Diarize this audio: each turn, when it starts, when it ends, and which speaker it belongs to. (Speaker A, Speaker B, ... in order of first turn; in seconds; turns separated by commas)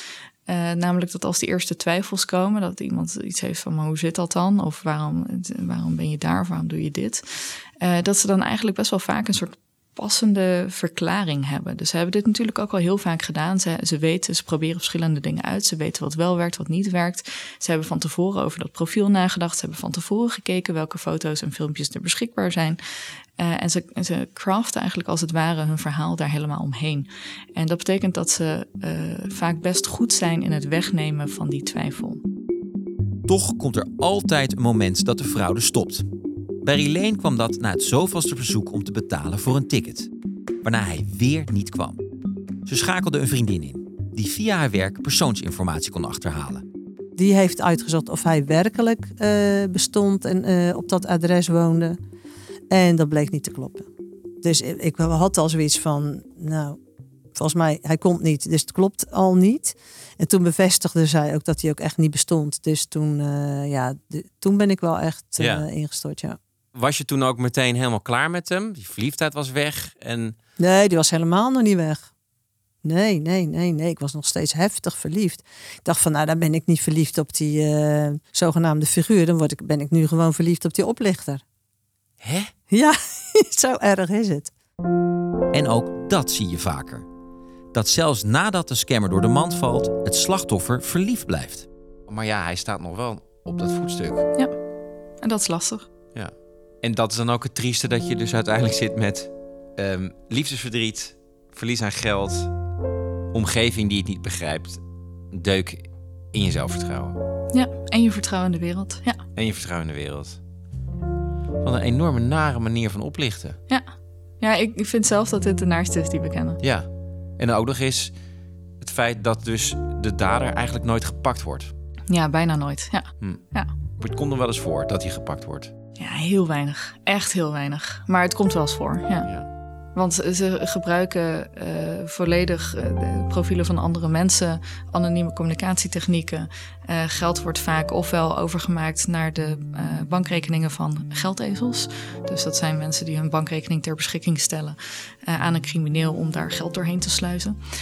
Speaker A: 0.5-22.8, Speaker A: 23.4-32.2, Speaker B: 33.3-36.0, Speaker B: 36.6-40.1, Speaker B: 40.6-42.0, Speaker B: 42.6-46.6, Speaker C: 47.1-52.0, Speaker C: 52.7-53.9, Speaker C: 54.4-56.8, Speaker C: 57.3-66.4, Speaker B: 65.4-65.7, Speaker B: 66.7-70.3, Speaker C: 70.6-72.1, Speaker C: 72.8-81.4, Speaker B: 82.2-82.5, Speaker C: 82.7-84.5, Speaker B: 85.5-87.0, Speaker B: 87.7-94.3, Speaker A: 95.2-95.9, Speaker B: 96.1-102.5, Speaker B: 103.3-104.8, Speaker B: 105.3-107.2, Speaker A: 107.5-109.2, Speaker B: 109.3-110.4, Speaker B: 111.6-113.6, Speaker A: 113.7-116.6, Speaker B: 116.6-116.9, Speaker B: 117.4-118.1, Speaker B: 118.8-121.7, Speaker A: 122.1-123.7, Speaker B: 124.0-125.7, Speaker A: 126.0-129.3, Speaker A: 129.9-147.6